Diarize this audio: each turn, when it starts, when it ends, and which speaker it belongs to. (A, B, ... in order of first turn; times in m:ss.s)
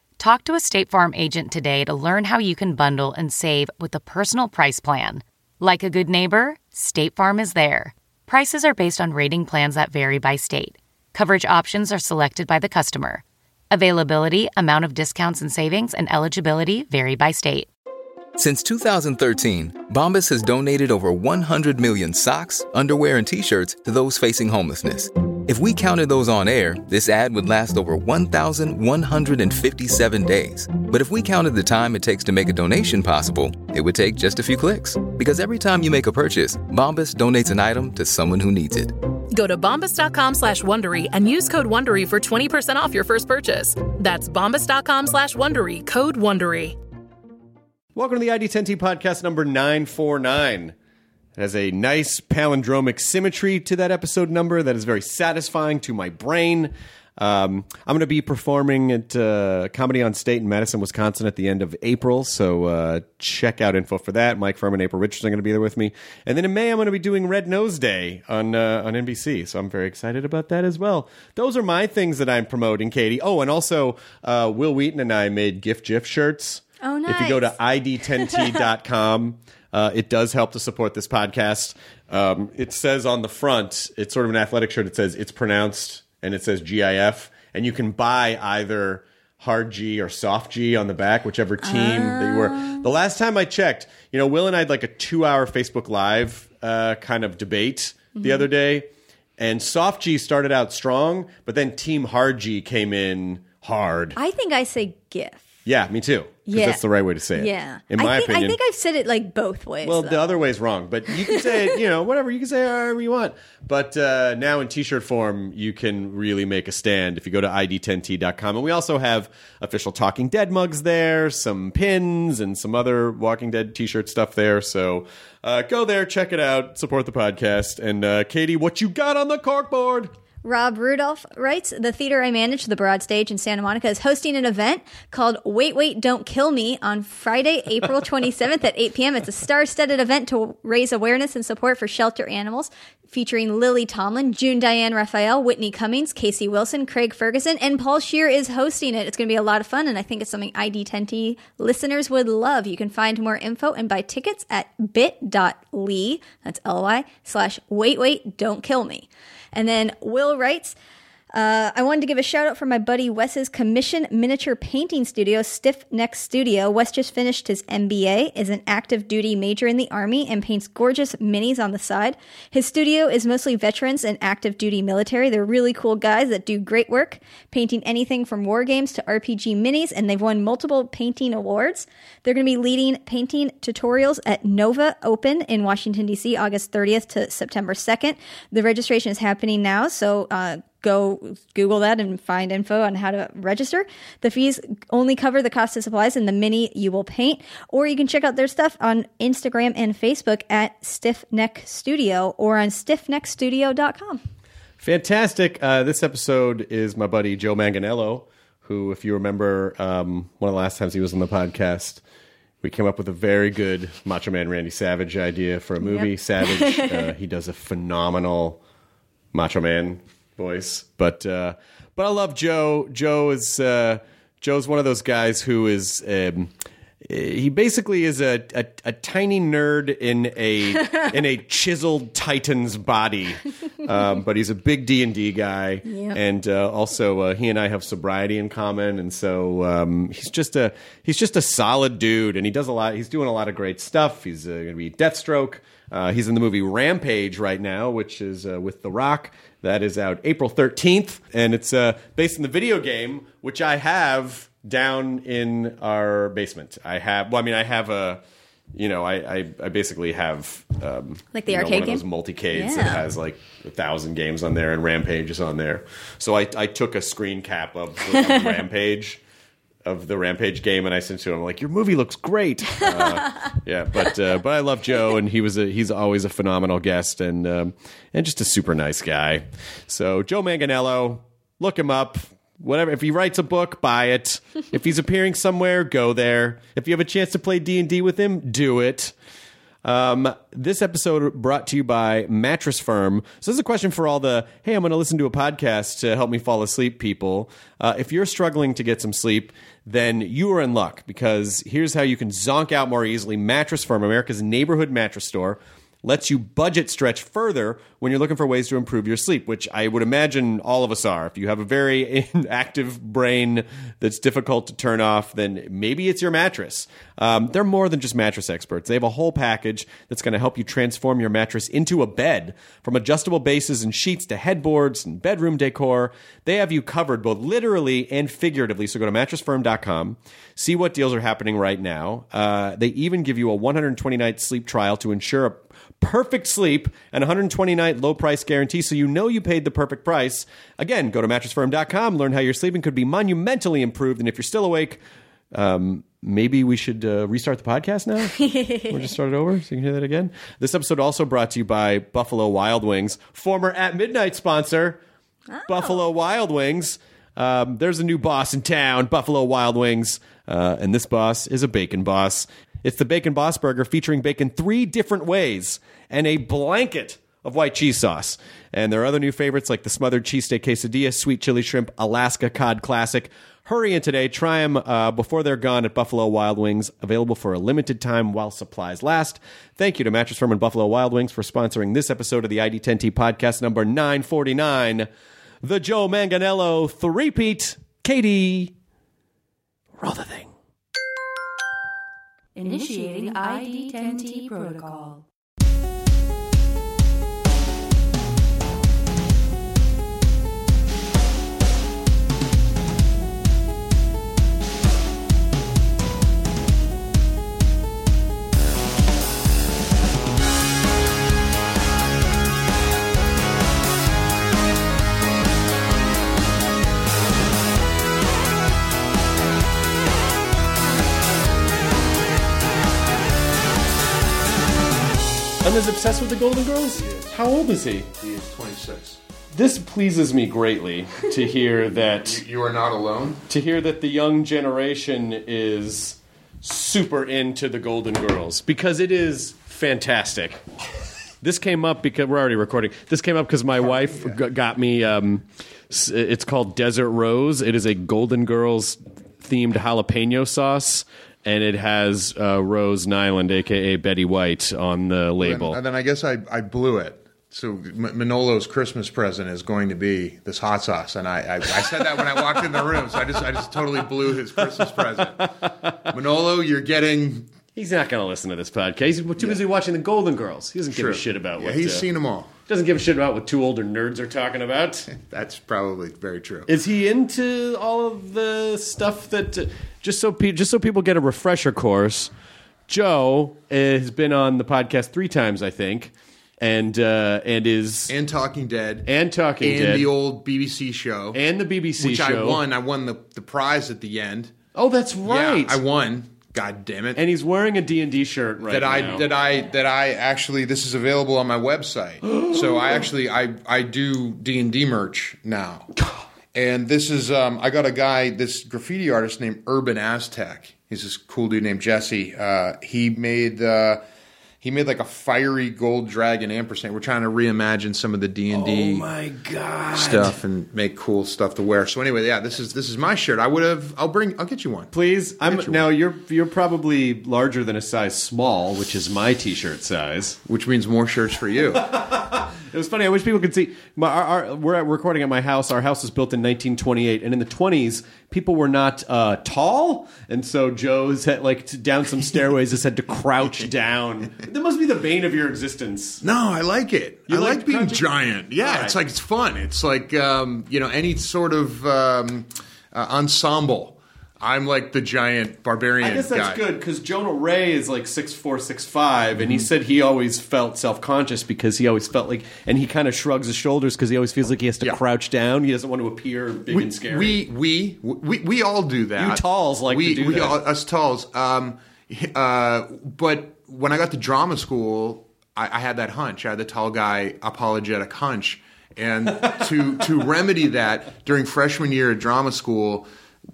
0:00.2-0:17.7 A
0:18.4-0:38.9 B
0:39.3-0:46.8 C
0:47.9-0:50.7 D
0:51.4-1:38.9 D
1:16.8-1:17.5 E
1:31.6-1:32.8 E
1:38.2-1:38.4 E
1:39.4-1:44.2 D
1:44.2-1:45.4 E
1:45.6-1:48.6 D
1:46.5-1:46.8 E
1:47.3-1:50.2 E
1:49.8-2:10.1 D
2:10.4-2:40.8 E
2:41.3-3:24.2 E
3:24.8-3:32.0 D
3:32.6-3:38.6 D
3:35.8-3:37.0 E
3:39.3-3:46.5 D
3:47.0-4:18.2 D
3:55.9-3:56.2 E
4:18.7-4:29.2 D
4:21.3-4:23.0 E
4:29.8-4:49.1 D
4:49.8-5:45.0 D
5:45.5-5:55.0 D
5:48.4-5:49.0 E
5:55.5-5:56.0 E
5:55.6-6:25.1 D
6:25.6-6:28.7 D
6:30.0-6:30.5 D
6:32.5-6:35.2 F
7:05.6-7:08.1 D
7:06.9-7:07.4 G
7:08.1-7:09.2 G
7:09.5-7:12.4 D
7:12.2-7:13.4 G
7:13.5-7:20.6 D
7:21.4-7:35.8 D
7:23.8-7:24.4 G
7:35.4-7:45.5 G
7:42.2-7:43.4 D
7:44.6-7:46.0 D
7:46.0-7:47.5 G
7:47.7-7:52.1 D
7:50.9-7:52.5 G
7:52.7-7:55.1 D
7:55.1-7:56.7 G
7:56.7-8:02.3 D
8:02.9-8:08.1 D
8:08.1-8:09.1 G
8:09.0-8:10.1 D
8:09.6-8:11.4 G
8:11.3-8:12.6 D
8:12.0-8:14.6 G
8:14.7-8:15.8 D
8:15.2-8:17.2 G
8:17.2-8:19.3 D
8:18.7-8:25.9 G
8:22.2-8:23.1 D
8:26.5-8:34.0 G
8:34.6-8:39.1 G
8:38.5-8:40.4 D
8:39.9-8:44.9 G
8:44.9-8:50.4 D
8:45.4-8:45.8 G
8:50.4-8:51.9 G
8:51.8-9:06.2 D
9:06.2-9:16.6 G
9:07.3-9:09.0 D
9:16.0-9:27.4 D
9:19.4-9:19.7 G
9:26.7-9:43.0 G
9:29.2-9:30.6 D